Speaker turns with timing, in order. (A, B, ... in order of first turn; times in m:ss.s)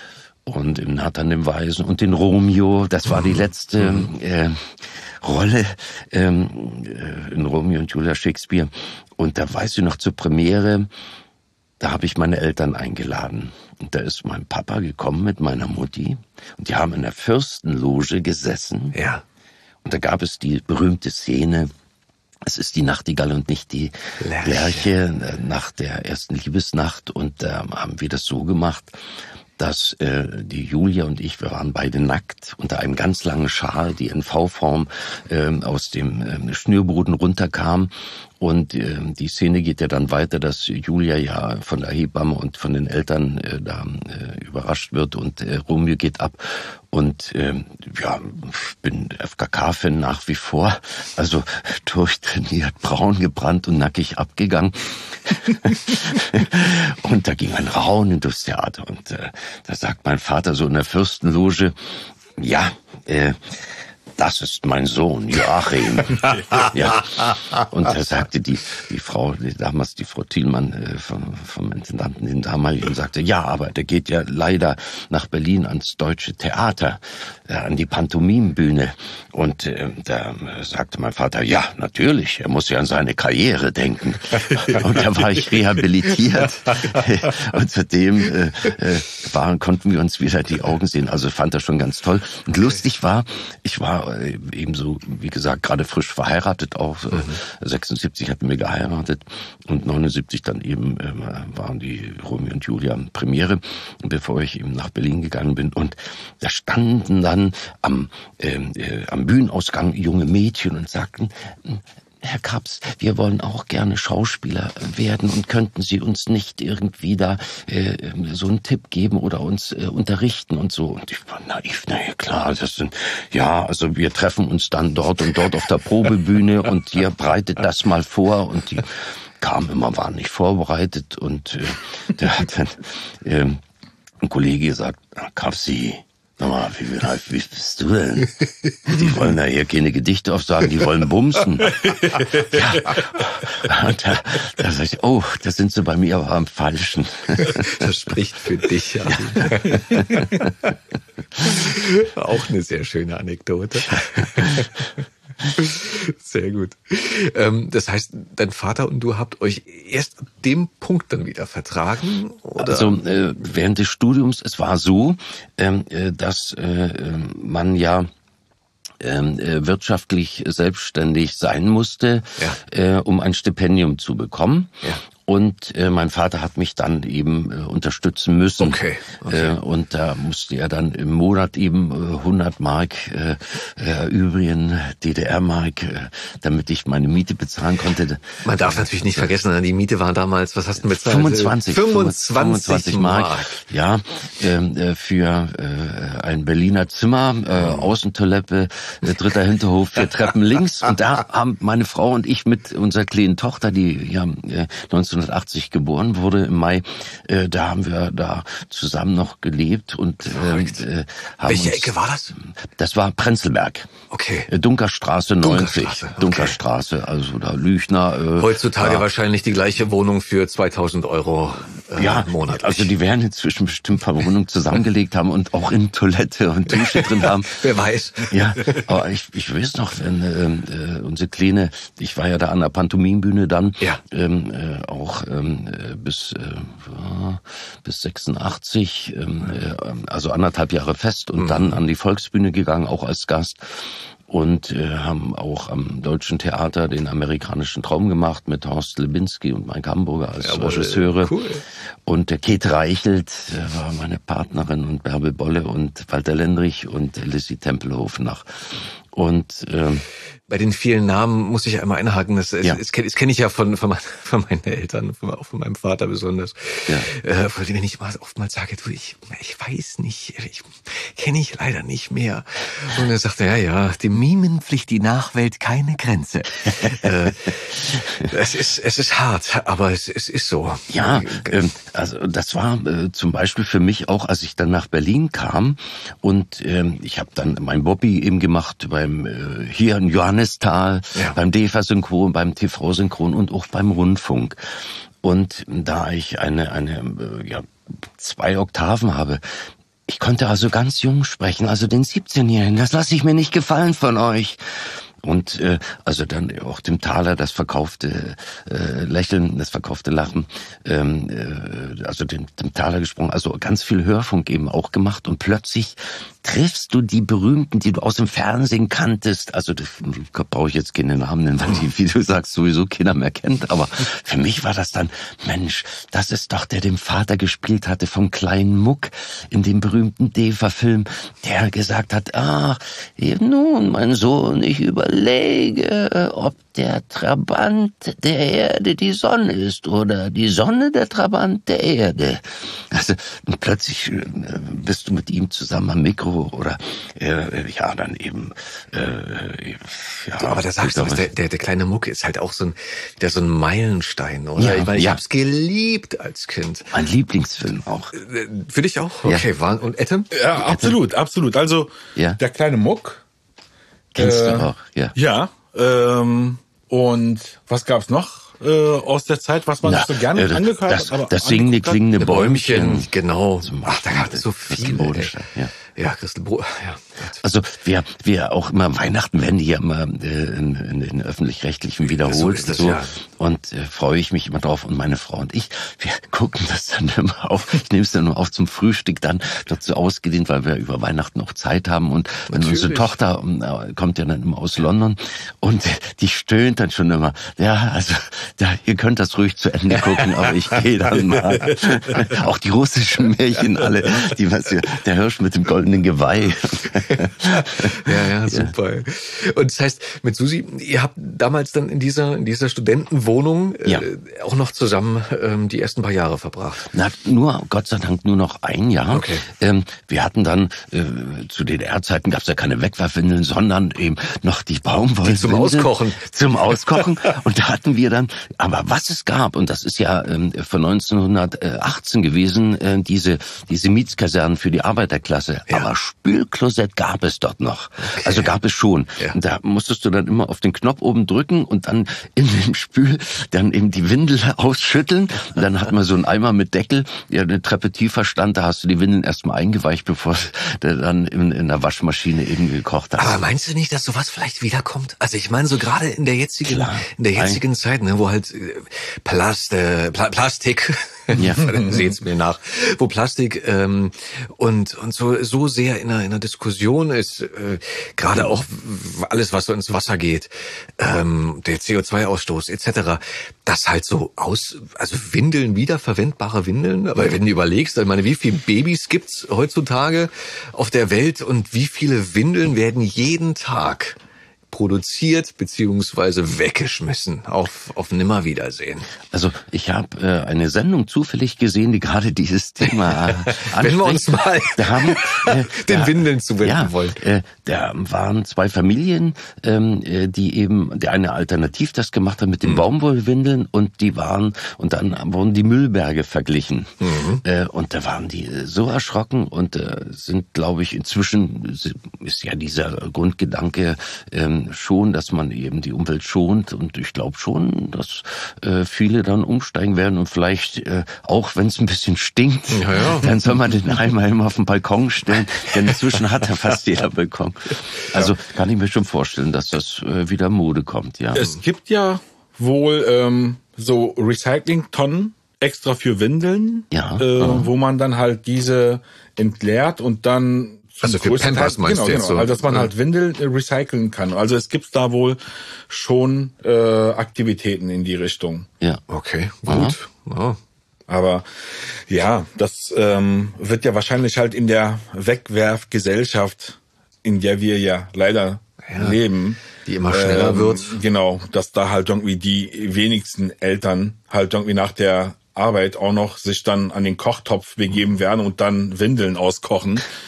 0:00.5-0:10.9 A
0:11.8-0:19.0 A
0:18.9-0:19.2 B
0:19.8-0:21.7 A
0:22.4-0:29.0 A
0:24.2-0:24.9 B
0:29.6-2:13.6 A
2:14.2-2:27.9 A
2:27.5-2:30.7 B
2:31.4-2:35.0 B
2:35.5-2:43.0 B
2:42.6-2:48.1 A
2:49.0-3:09.3 A
2:58.6-2:59.6 B
3:08.4-3:13.6 B
3:10.9-3:33.9 A
3:17.6-3:17.9 B
3:30.3-3:30.8 B
3:31.4-3:32.4 B
3:34.1-3:34.5 B
3:34.5-3:39.1 A
3:35.4-3:36.6 B
3:38.4-3:42.9 B
3:42.0-3:47.6 A
3:46.9-3:48.8 B
3:48.3-4:11.4 A
4:01.4-4:01.7 B
4:10.4-4:11.6 B
4:12.0-4:20.1 A
4:20.5-4:41.6 B
4:40.9-4:54.6 A
4:55.2-4:59.6 A
5:00.1-5:51.3 A
5:50.4-5:57.0 B
5:54.6-5:55.2 A
5:56.9-5:58.1 A
5:58.1-6:00.3 B
6:00.3-6:03.2 C
6:00.5-6:01.0 A
6:04.2-6:05.2 A
6:04.2-6:12.0 C
6:09.8-6:13.1 A
6:12.2-6:17.4 B
6:13.6-6:15.7 A
6:17.4-6:48.7 A
6:22.2-6:23.2 B
6:32.5-6:33.1 B
6:47.1-6:56.9 B
6:56.9-7:33.4 A
6:59.1-6:59.5 B
7:05.2-7:07.0 B
7:18.0-7:18.5 B
7:33.2-8:04.2 B
7:36.7-7:37.6 A
7:41.4-7:41.9 A
8:04.7-8:09.1 B
8:09.3-8:51.4 A
8:13.1-8:17.2 B
8:27.0-8:27.4 B
8:42.7-8:43.3 B
8:51.3-9:08.7 C
8:56.9-8:57.7 A
9:01.0-9:02.9 B
9:09.1-9:10.6 B
9:09.7-9:10.0 A
9:11.1-9:11.4 C
9:12.1-9:30.1 C
9:18.8-9:19.2 B
9:19.8-9:21.0 B